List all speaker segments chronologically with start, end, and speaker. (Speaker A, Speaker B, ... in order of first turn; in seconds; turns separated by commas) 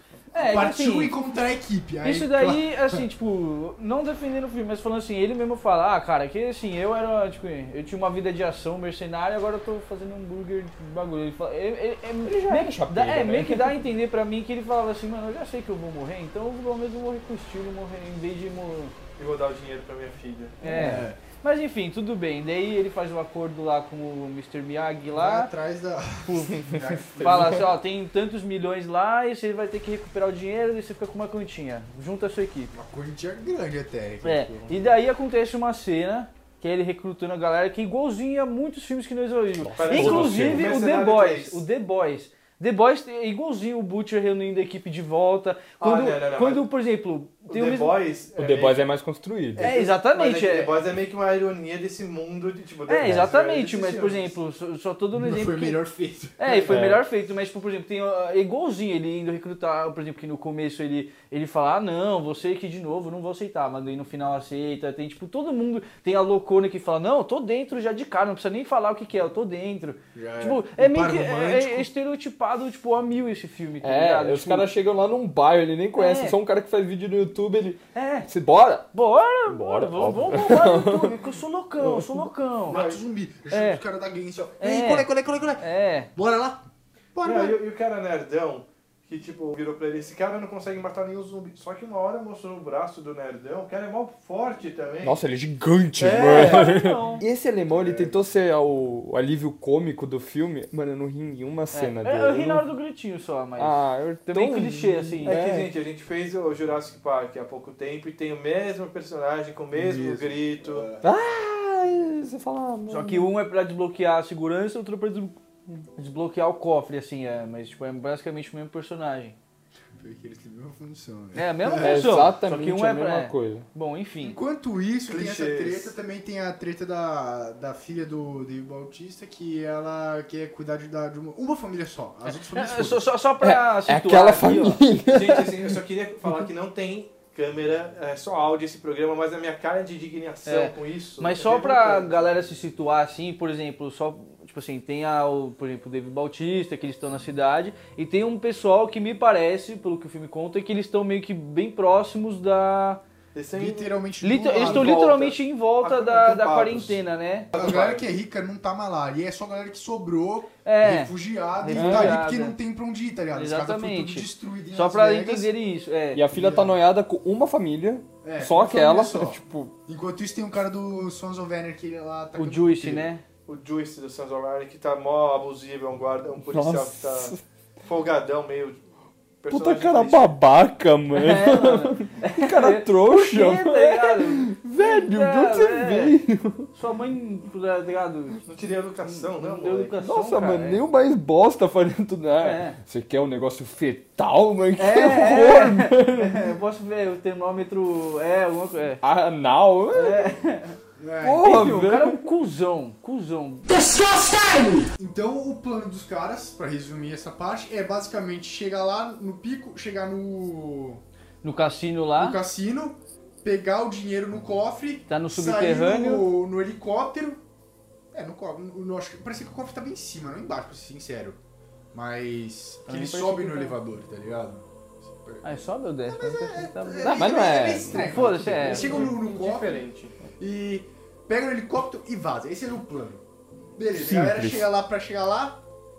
Speaker A: 0.3-1.1, Speaker B: 0.3-3.0, Speaker A: 2.0-18.9, Speaker C: 12.2-13.8, Speaker D: 19.2-20.6, Speaker A: 20.6-25.5, Speaker C: 20.7-21.0, Speaker B: 20.7-21.2, Speaker B: 25.1-27.7, Speaker A: 26.2-32.7, Speaker B: 32.7-34.9, Speaker A: 34.2-47.9, Speaker C: 39.6-40.7, Speaker D: 39.8-41.6, Speaker D: 45.8-46.7, Speaker D: 47.5-48.8, Speaker C: 48.4-49.7, Speaker D: 49.5-54.3, Speaker A: 49.6-50.7, Speaker A: 52.9-55.8, Speaker C: 53.0-53.3, Speaker B: 55.1-56.5, Speaker A: 56.4-74.7, Speaker D: 56.4-56.7, Speaker C: 56.7-57.0, Speaker B: 70.1-71.9, Speaker C: 73.8-78.9, Speaker A: 76.0-76.4, Speaker A: 77.9-78.3, Speaker A: 78.9-82.8, Speaker C: 79.5-81.1, Speaker C: 81.8-82.2, Speaker B: 82.7-87.6, Speaker D: 82.7-83.0, Speaker A: 83.5-83.8, Speaker A: 84.6-86.1, Speaker D: 87.2-95.2, Speaker C: 95.0-102.6, Speaker A: 96.0-97.2, Speaker B: 97.7-98.2, Speaker A: 101.7-105.4, Speaker C: 103.6-105.7, Speaker D: 105.2-110.8, Speaker B: 109.7-111.1, Speaker C: 111.0-113.3, Speaker A: 112.9-115.4, Speaker A: 116.0-119.4, Speaker B: 120.0-122.3, Speaker A: 121.3-124.4, Speaker C: 121.8-123.7, Speaker B: 124.2-133.1, Speaker D: 125.1-125.9, Speaker A: 132.5-134.8, Speaker C: 133.4-135.8, Speaker D: 135.1-142.2, Speaker A: 140.4-153.0, Speaker D: 153.3-153.9, Speaker B: 153.6-155.1, Speaker A: 154.2-157.5, Speaker D: 154.5-157.0, Speaker D: 157.5-158.1, Speaker B: 157.5-165.5, Speaker A: 160.6-162.6, Speaker C: 161.7-162.2, Speaker A: 163.3-166.2, Speaker C: 166.1-169.7, Speaker B: 166.3-166.8, Speaker B: 168.2-173.1, Speaker A: 172.4-173.2, Speaker D: 173.5-178.8, Speaker C: 176.5-177.4, Speaker D: 179.4-180.4, Speaker C: 179.5-186.7, Speaker A: 181.1-186.2, Speaker A: 186.7-188.4, Speaker D: 188.5-190.0, Speaker A: 189.1-190.8, Speaker C: 190.0-196.3, Speaker A: 192.4-192.8, Speaker A: 194.8-199.0, Speaker C: 199.0-200.3, Speaker A: 199.9-200.8, Speaker B: 201.0-201.5, Speaker C: 201.2-202.2, Speaker A: 201.4-203.6, Speaker B: 204.9-211.0, Speaker A: 211.4-212.4, Speaker B: 212.2-217.4, Speaker A: 215.1-216.3, Speaker B: 218.1-221.4, Speaker B: 221.9-229.8, Speaker A: 222.9-223.8, Speaker A: 225.4-229.2, Speaker C: 227.1-228.3, Speaker D: 228.3-230.1, Speaker B: 230.4-233.2, Speaker B: 233.7-235.6, Speaker C: 233.9-234.7